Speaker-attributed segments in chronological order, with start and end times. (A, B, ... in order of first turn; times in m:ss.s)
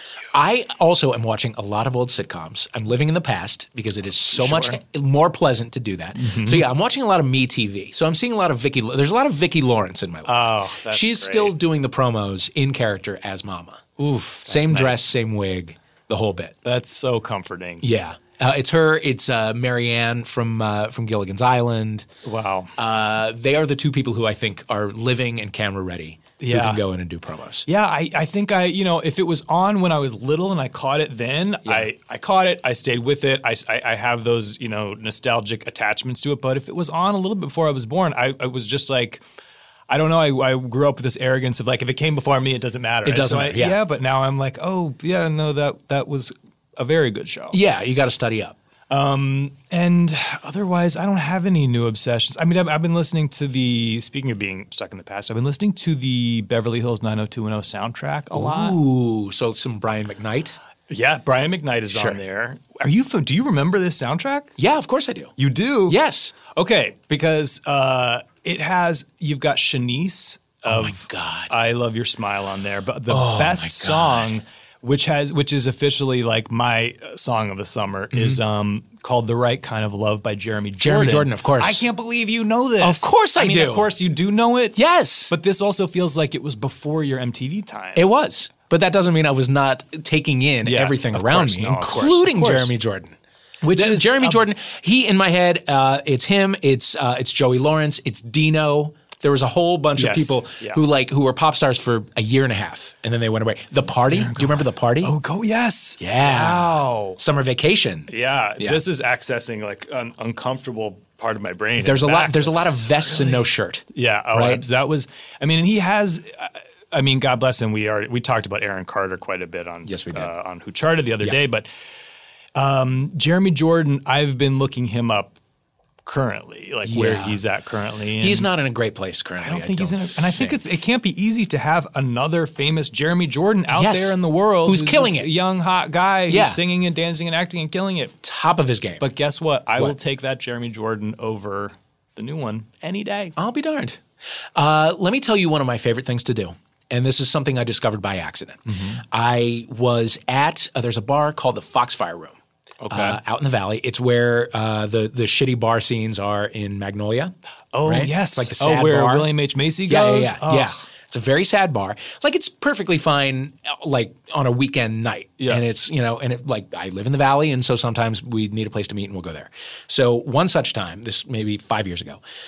0:00.3-0:13.8 A
0:04.3-0:04.8 B
0:06.2-0:06.7 B
0:10.3-0:11.5 B
0:14.0-0:15.1 B
0:14.4-0:16.5 A
0:16.6-0:17.8 B
0:17.8-0:22.1 A
0:22.2-0:22.7 B
0:22.8-0:27.6 A
0:26.4-0:26.8 B
0:27.6-0:39.2 B
0:39.9-0:47.6 B
0:43.0-0:43.8 A
0:47.5-0:48.6 A
0:48.9-0:58.8 B
0:58.3-1:00.6 A
1:00.9-1:04.5 B
1:01.9-1:02.2 A
1:04.6-1:05.3 A
1:05.4-1:28.0 B
1:05.9-1:06.3 A
1:10.6-1:11.5 A
1:13.1-1:14.4 A
1:18.1-1:18.4 A
1:20.8-1:21.8 A
1:22.8-1:23.9 A
1:24.7-1:25.3 A
1:28.0-1:33.2 A
1:30.6-1:32.7 B
1:33.6-1:34.4 B
1:33.7-1:45.1 A
1:40.0-1:40.8 B
1:44.1-1:47.2 B
1:46.0-1:48.8 A
1:48.1-2:01.7 B
1:51.8-1:54.6 A
1:59.8-2:00.3 A
2:02.5-2:05.3 B
2:06.0-2:08.5 B
2:06.8-2:07.4 A
2:08.2-2:10.6 A
2:09.4-2:18.2 B
2:13.7-2:15.3 A
2:16.3-2:16.6 A
2:18.2-2:19.0 A
2:19.0-2:23.3 B
2:23.4-2:24.0 A
2:24.5-2:32.4 A
2:28.7-2:29.0 B
2:32.8-2:33.2 B
2:32.9-2:37.3 A
2:37.7-2:40.7 B
2:37.8-2:39.3 A
2:39.9-2:52.2 A
2:45.4-2:45.6 B